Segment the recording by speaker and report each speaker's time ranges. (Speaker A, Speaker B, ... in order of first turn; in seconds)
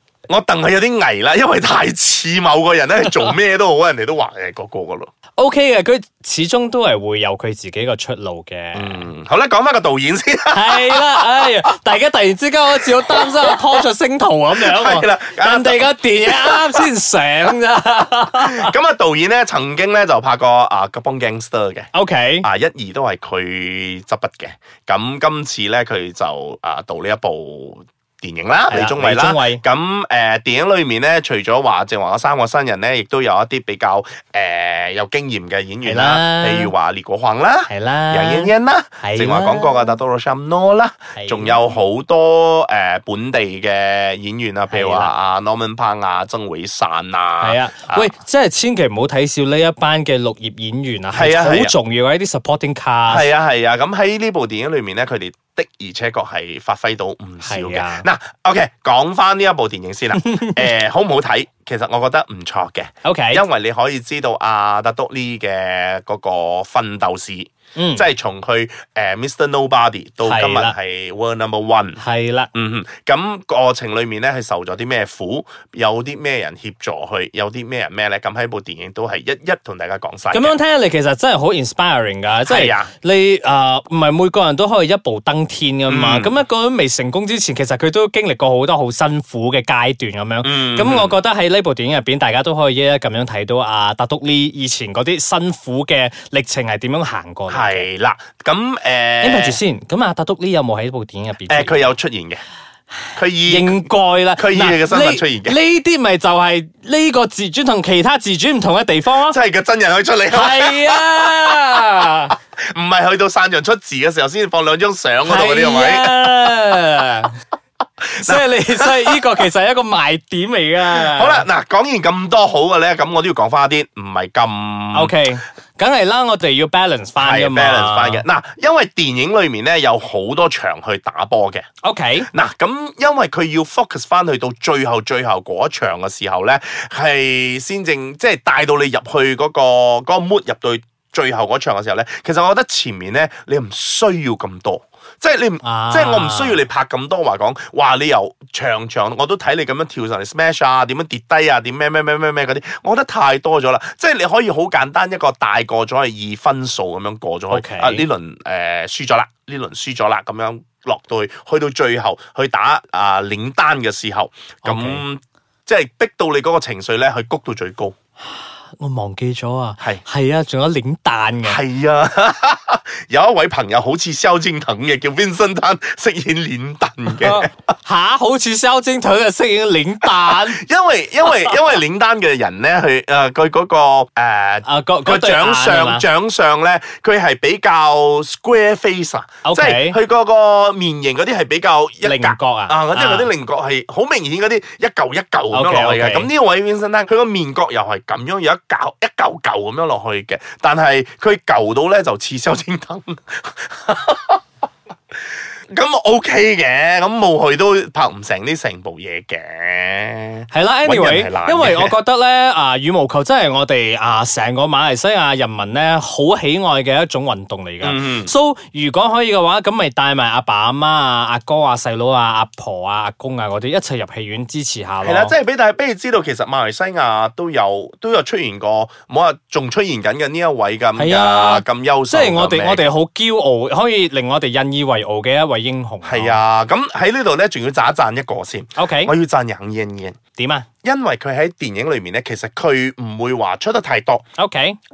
Speaker A: 0.3-5.1, 8.7-11.6, 12.9-13.6, 14.5-16.9, 18.3-21.9, 22.4-48.1, 51.1-51.7, 53.1-72.0, 72.5-80.6, 82.5-82.9, 85.9-86.3, 90.4-91.2, 97.5-99.6, 101.5-102.4, 103.2-105.6, 109.1-111.6, 112.7-116.6, 118.2-119.5, 120.9-125.2, 127.2-131.7, 132.3-167.9, 171.4-177.6, 180.1-204.4, 205.7-212.0, 217.8-218.3, 225.0-232.8, 236.0-240.2, 240.8-244.2
Speaker B: 5.4-9.0, 10.5-18.7, 21.9-22.5, 28.7-29.6, 35.9-36.7, 37.7-39.9, 41.1-41.6, 44.7-45.1, 47.4-53.3, 57.4-58.1, 60.2-60.6, 63.0-63.5, 67.8-68.1, 70.2-70.8, 72.0-72.5, 80.3-97.8, 99.2-101.8, 103.4-109.4, 110.3-112.3, 115.2-117.3, 118.2-121.5, 124.9-128.2, 131.8-132.3, 145.6-146.6, 157.5-158.1, 164.6-165.0, 168.2-171.6, 177.1-180.6, 184.7-186.1, 189.4-190.0, 192.0-193.3, 195.5-196.3, 210.5-225.3, 231.0-236.4, 238.8-239.1, 240.4-240.7, 244.4-244.8